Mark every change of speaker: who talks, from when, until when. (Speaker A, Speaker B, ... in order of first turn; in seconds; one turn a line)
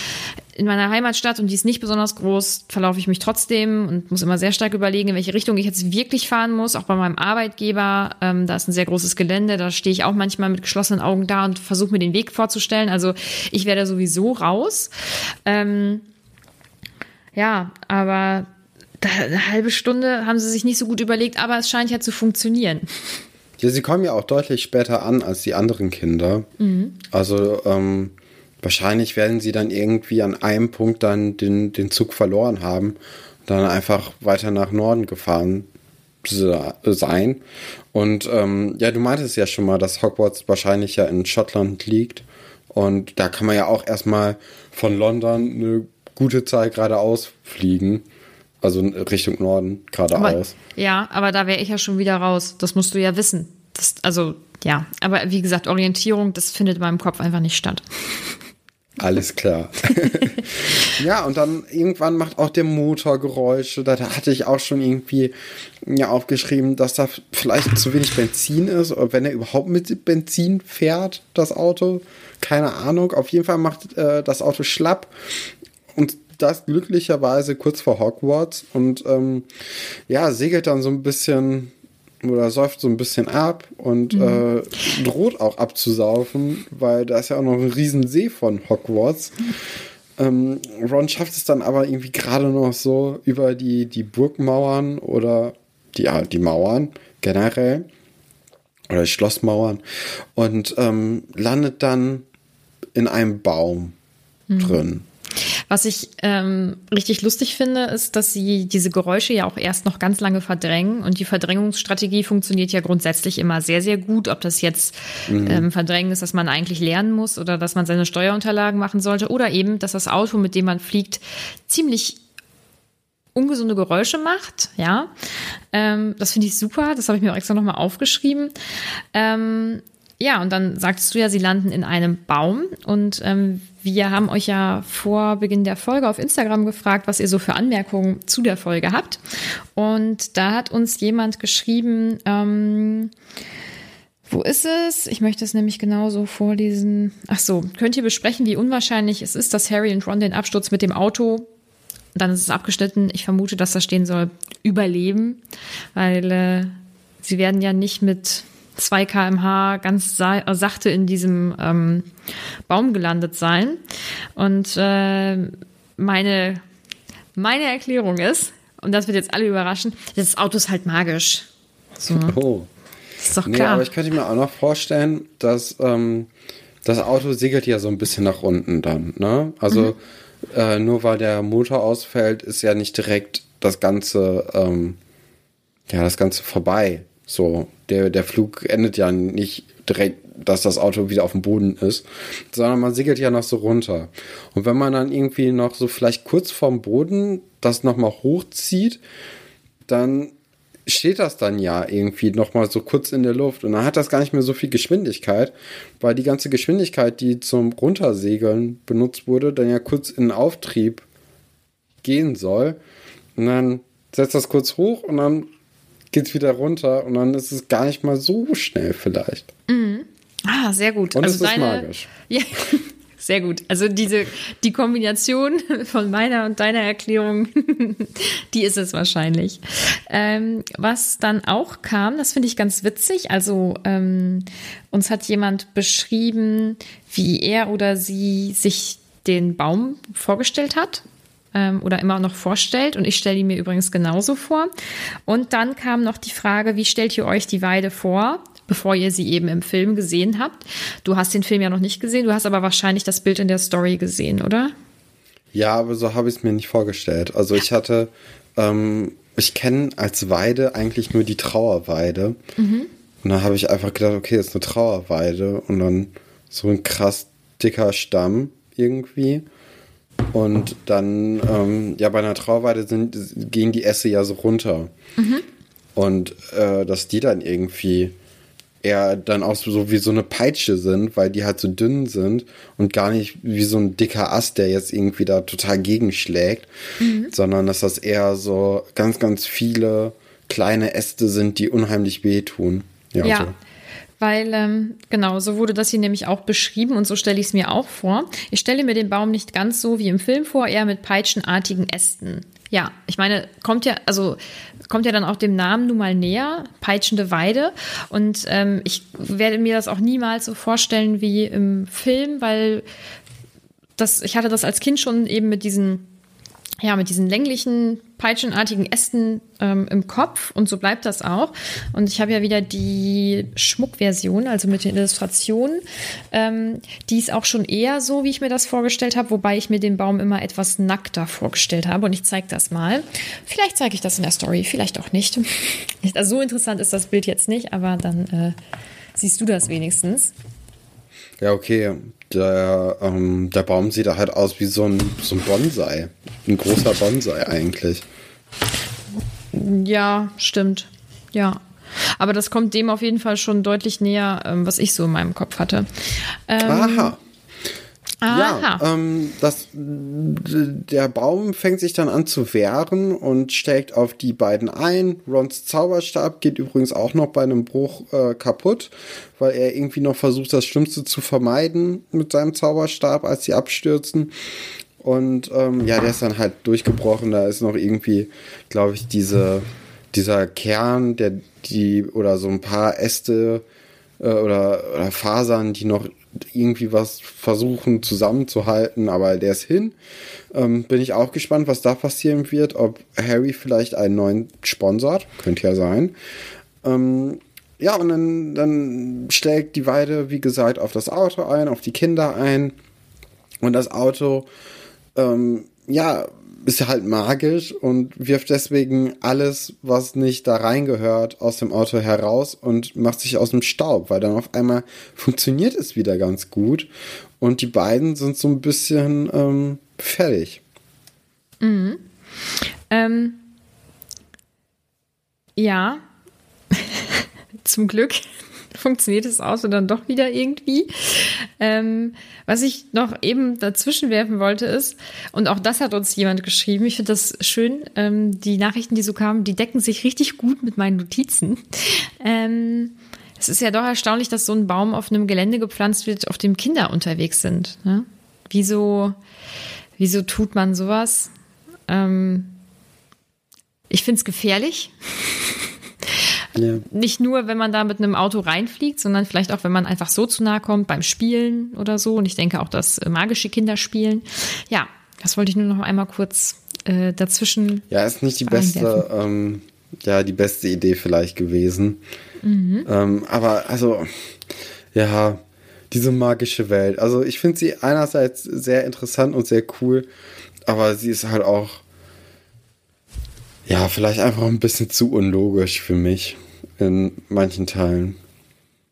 Speaker A: 0.6-14.9
Speaker A: 15.5-16.1
Speaker A: 17.4-18.5
Speaker A: 19.0-22.9
Speaker B: 23.6-26.5
Speaker A: 26.6-27.0
Speaker B: 27.1-35.7
Speaker B: 36.2-37.4
Speaker B: 37.9-48.0
Speaker B: 48.6-50.5
Speaker A: 50.1-57.9
Speaker B: 59.0-75.1
Speaker B: 75.9-79.5
Speaker B: 80.1-89.4
Speaker A: 84.1-84.4
Speaker B: 90.2-97.9
Speaker B: 98.9-99.8
Speaker B: 100.3-102.3
Speaker B: 103.0-104.0
Speaker A: 104.5-104.8
Speaker B: 104.6-105.0
Speaker A: 105.7-122.2
Speaker B: 115.3-115.7
Speaker A: 123.3-125.1
Speaker A: 125.7-128.5
Speaker A: 129.1-139.2
Speaker A: 139.8-143.1
Speaker A: 144.3-151.5
Speaker A: 152.2-155.4
Speaker A: 155.9-162.1
Speaker A: 162.7-163.8
Speaker A: 164.4-166.6
Speaker A: 167.4-171.5
Speaker A: 172.0-172.4
Speaker B: 172.1-172.7
Speaker A: 173.2-173.9
Speaker B: 173.4-176.3
Speaker B: 176.8-180.0
Speaker B: 180.5-185.0
Speaker B: 185.9-199.0
Speaker B: 199.9-200.3
Speaker B: 200.9-211.1
Speaker B: 212.0-212.8
Speaker B: 213.4-215.5
Speaker B: 216.1-219.5
Speaker A: 219.7-241.0
Speaker B: 221.1-222.1
Speaker A: 241.5-244.7
Speaker A: 245.3-254.7
Speaker B: 255.5-262.4
Speaker A: 262.6-262.9
Speaker B: 263.2-269.4
Speaker B: 270.3-274.9
Speaker A: 275.2-275.4
Speaker B: 276.0-278.1
Speaker B: 278.8-286.7
Speaker A: 287.0-287.3
Speaker B: 287.3-293.5
Speaker A: 293.2-293.5
Speaker A: 294.2-312.9
Speaker A: 314.0-316.1
Speaker A: 316.8-338.6
Speaker A: 339.2-340.3
Speaker B: 341.4-348.1
Speaker A: 349.5-351.6
Speaker A: 352.2-355.9
Speaker A: 356.5-357.1
Speaker B: 356.6-357.2
Speaker A: 358.2-358.8
Speaker B: 358.3-374.3
Speaker B: 375.0-383.6
Speaker B: 384.2-389.9
Speaker B: 390.5-396.1
Speaker B: 396.8-402.8
Speaker B: 403.6-404.5
Speaker B: 405.1-420.6
Speaker A: 421.6-422.0
Speaker A: 422.9-423.4
Speaker A: 425.6-426.0
Speaker A: 426.7-428.2
Speaker A: 428.7-449.2
Speaker A: 450.0-451.3
Speaker A: 451.9-452.5
Speaker A: 453.9-455.4
Speaker B: 456.6-456.8
Speaker A: 456.9-467.9
Speaker B: 467.9-472.0
Speaker A: 468.4-469.1
Speaker A: 472.4-472.9
Speaker B: 472.9-474.1
Speaker B: 474.9-480.1
Speaker B: 480.7-481.8
Speaker B: 483.7-488.2